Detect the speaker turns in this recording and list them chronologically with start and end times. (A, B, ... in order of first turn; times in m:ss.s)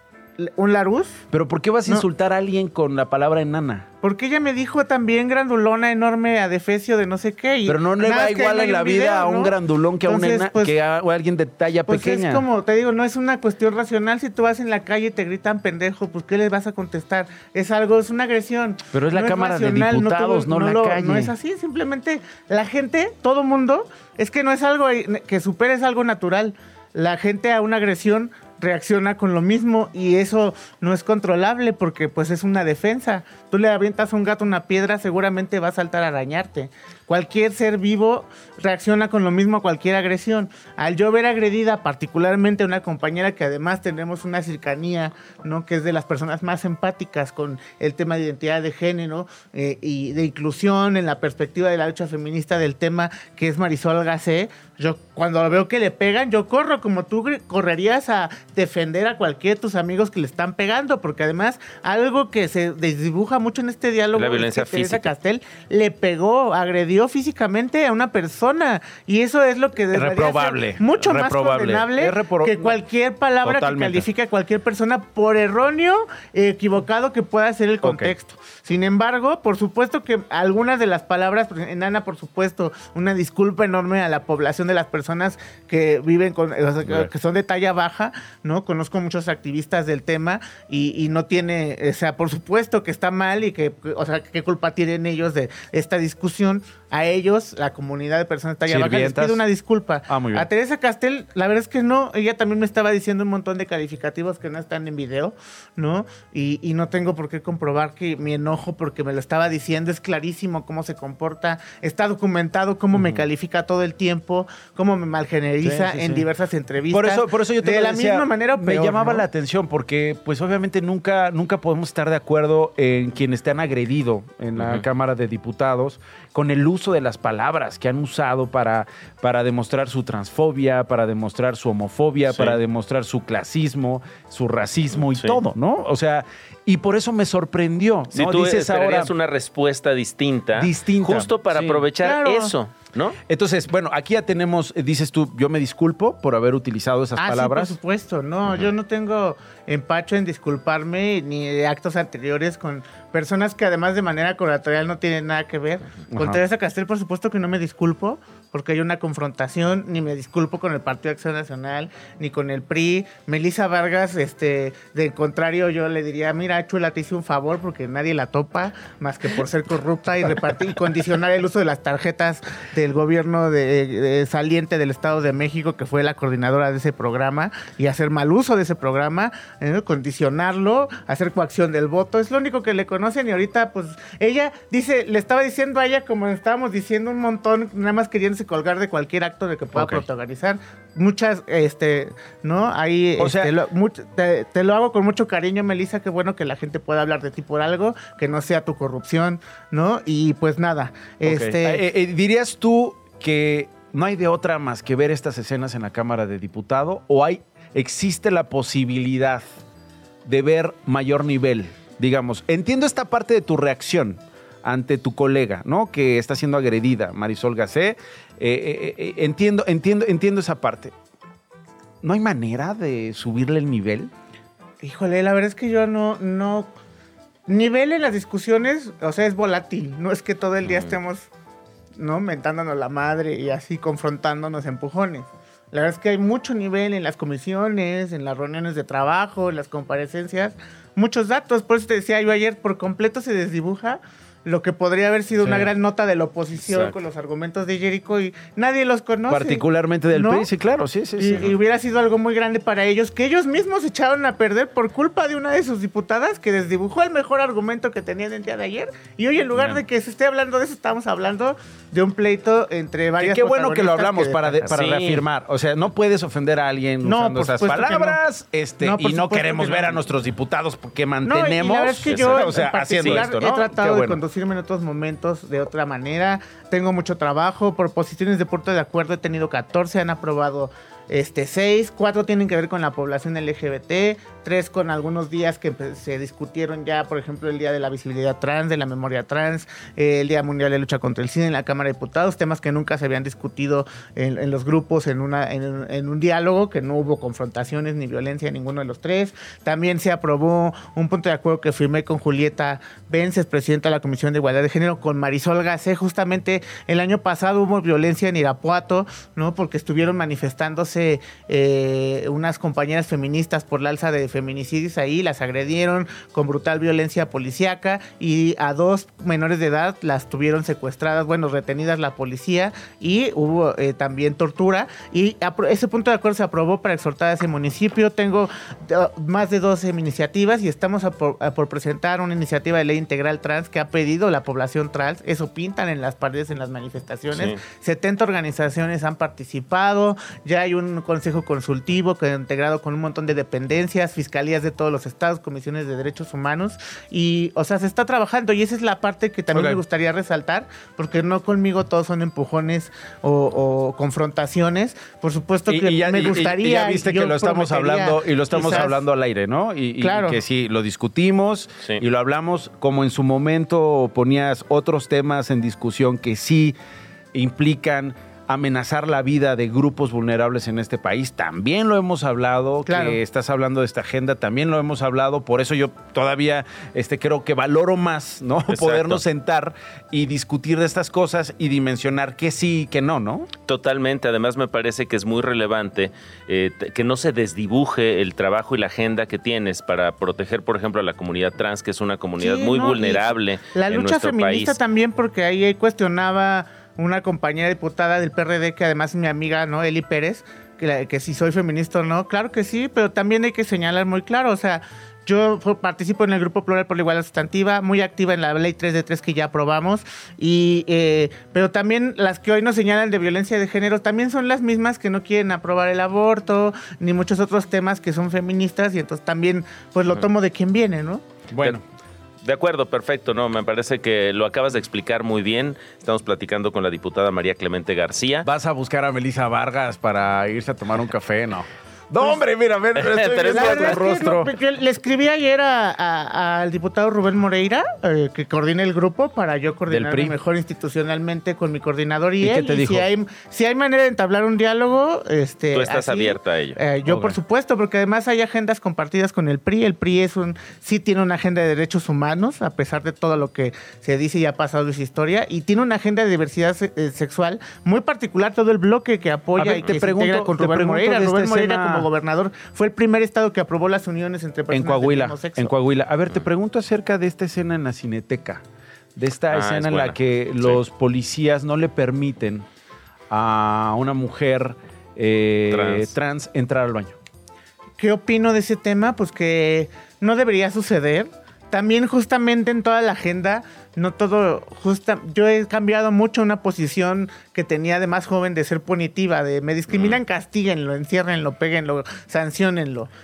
0:00.4-0:01.2 A
0:01.3-0:03.9 B
0:04.0-0:10.8 A
0:07.7-0:12.4 B
0:11.9-1:59.3 A
0:18.9-0:21.3 B
1:04.1-1:05.1 C
1:09.9-1:12.8 B
1:13.4-1:14.0 B
1:17.8-1:18.1 B
1:26.8-1:27.1 B
1:38.7-1:39.4 B
1:40.1-1:40.5 B
1:52.9-1:53.2 B
1:55.6-1:56.3 B
1:56.9-2:19.1 B
2:04.6-2:04.8 C
2:12.3-2:12.6 C
2:15.1-2:15.4 C
2:18.1-2:23.2 C
2:20.6-2:21.9 B
2:22.0-2:22.5 A
2:23.3-2:27.8 B
2:27.2-3:21.8 A
2:36.1-2:36.4 B
3:09.7-3:10.0 B
3:13.2-3:13.5 B
3:21.2-3:29.4 B
3:30.3-3:40.9 B
3:42.0-3:44.1 B
3:44.8-3:46.7 A
3:47.5-3:51.3 A
3:50.6-3:50.9 C
3:52.0-4:10.5 A
4:05.4-4:05.7 B
4:06.6-4:07.0 B
4:09.3-4:11.6 B
4:11.2-4:24.8 A
4:19.6-4:19.8 B
4:23.2-4:34.2 B
4:24.7-4:25.2 C
4:27.0-4:28.2 A
4:28.8-4:30.0 A
4:31.2-5:59.0 A
4:32.1-4:33.3 C
5:37.3-5:37.6 C
5:49.5-5:49.8 B
5:55.7-6:06.8 B
6:00.0-6:00.4 A
6:07.3-6:23.5 B
6:12.9-6:13.2 A
6:18.7-6:19.2 C
6:23.7-6:34.8 C
6:32.4-7:01.3 A
7:01.5-7:01.8 B
7:02.4-7:08.5 C
7:08.4-7:14.5 B
7:13.0-7:14.3 C
7:13.5-7:45.7 A
7:19.9-7:20.4 B
7:22.4-7:23.1 B
7:25.7-7:26.8 C
7:27.0-7:27.4 B
7:39.6-7:42.1 B
7:44.7-7:48.6 B
7:49.2-7:52.7 B
7:49.5-7:50.8 C
7:53.3-7:57.2 B
7:55.7-7:56.1 C
7:58.0-8:13.1 A
8:09.9-8:10.2 C